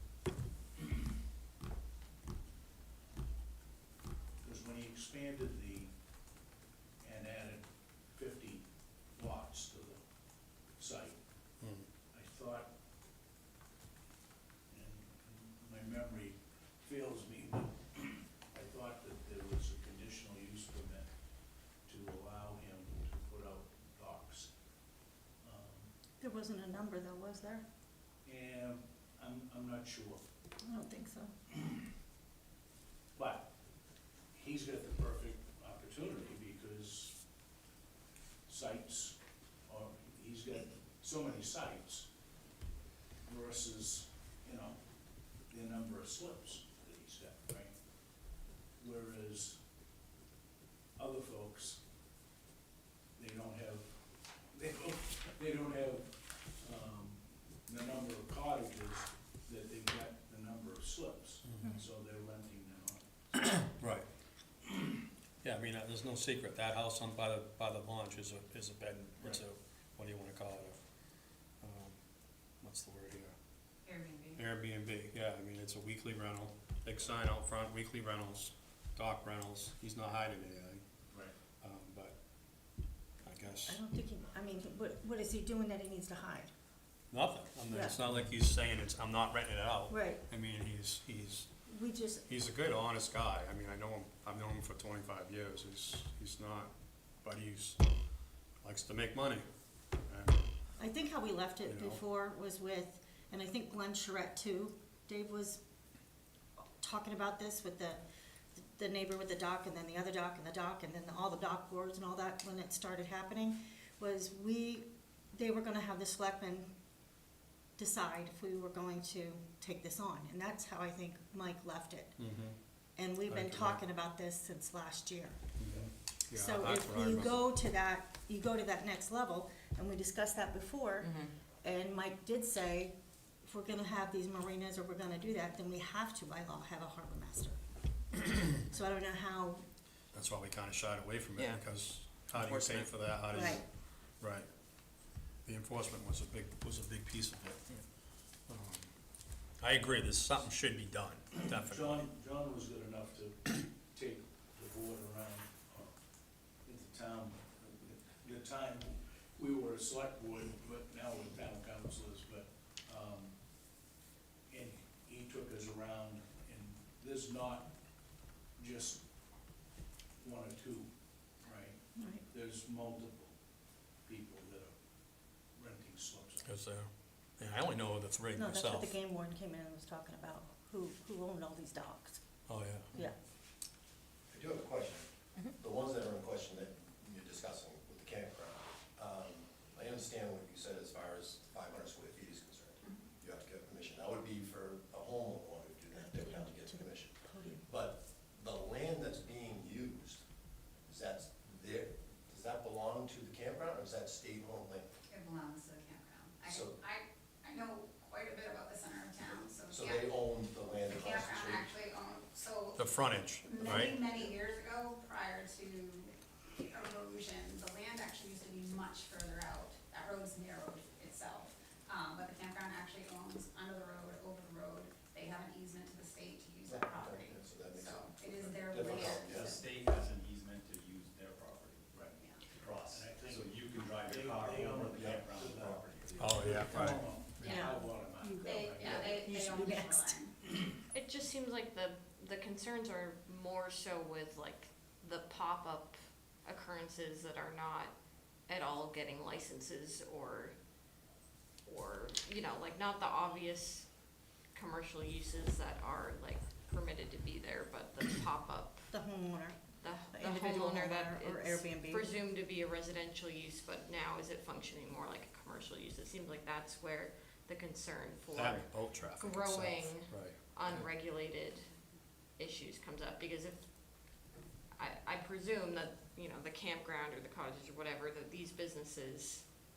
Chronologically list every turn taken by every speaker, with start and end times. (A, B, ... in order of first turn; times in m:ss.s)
0:04.4-0:05.9 A
0:07.0-0:08.6 A
0:09.2-0:10.0 A
0:10.8-0:11.2 A
0:11.6-0:11.9 B
0:12.1-0:12.7 A
0:14.7-0:21.1 A
0:21.9-0:24.5 A
0:25.4-0:25.9 A
0:26.2-0:27.6 C
0:28.2-0:30.2 A
0:30.6-0:31.3 C
0:33.2-0:33.5 A
0:34.3-0:37.2 A
0:38.5-0:39.2 A
0:39.7-0:42.1 A
0:43.3-0:44.8 A
0:45.5-0:47.7 A
0:48.8-0:49.6 A
0:51.0-0:51.8 A
0:53.2-0:53.9 A
0:54.5-0:56.1 A
0:56.6-1:03.5 A
1:03.7-1:04.1 B
1:05.4-1:10.8 B
1:11.6-1:12.0 B
1:12.6-1:13.3 B
1:13.8-1:14.4 D
1:14.4-1:20.8 B
1:21.6-1:22.2 B
1:23.2-1:23.8 B
1:23.7-1:26.5 C
1:27.1-1:31.5 B
1:27.7-1:28.0 C
1:29.9-1:30.2 C
1:31.7-1:32.3 C
1:32.3-1:37.8 B
1:38.6-1:39.4 B
1:40.1-1:40.4 B
1:40.8-1:45.6 C
1:41.6-1:42.0 B
1:46.8-1:48.0 C
1:48.6-1:56.7 C
1:57.8-2:02.2 C
2:02.2-2:02.6 B
2:03.0-2:05.4 C
2:03.3-2:03.8 B
2:05.6-2:07.4 B
2:06.3-2:17.6 C
2:18.2-2:19.6 C
2:20.1-2:24.5 B
2:22.3-2:23.0 E
2:23.3-2:23.6 C
2:25.4-2:27.8 B
2:28.5-2:29.0 B
2:29.6-2:32.1 B
2:31.6-2:35.9 A
2:36.7-2:43.3 A
2:44.5-2:47.7 A
2:48.6-2:49.0 A
2:50.2-2:50.9 A
2:51.4-2:51.8 A
2:52.0-2:52.2 C
2:52.3-2:53.3 A
2:54.0-2:54.7 A
2:55.6-2:56.5 A
2:56.4-2:59.0 B
2:58.3-3:02.2 C
3:02.5-3:02.9 B
3:04.3-3:20.2 F
3:15.9-3:17.7 C
3:20.9-3:24.9 F
3:25.1-3:30.1 D
3:26.5-3:26.8 F
3:29.7-3:31.7 F
3:30.9-3:32.9 D
3:32.8-3:34.0 B
3:33.4-3:49.5 D
3:46.6-3:49.6 F
3:48.8-3:51.9 E
3:51.9-3:52.2 A
3:52.6-3:56.2 E
3:52.9-3:59.3 A
3:55.0-3:55.8 F
3:56.2-3:57.5 B
3:57.4-4:00.3 D
3:57.4-3:58.6 C
3:59.2-4:00.2 C
4:00.9-4:07.9 G
4:08.5-4:10.5 G
4:11.7-4:13.9 G
4:14.6-4:18.9 G
4:18.9-4:19.6 C
4:19.8-4:31.6 G
4:20.1-4:22.2 C
4:28.3-4:30.9 B
4:32.4-4:33.6 G
4:34.8-4:39.4 G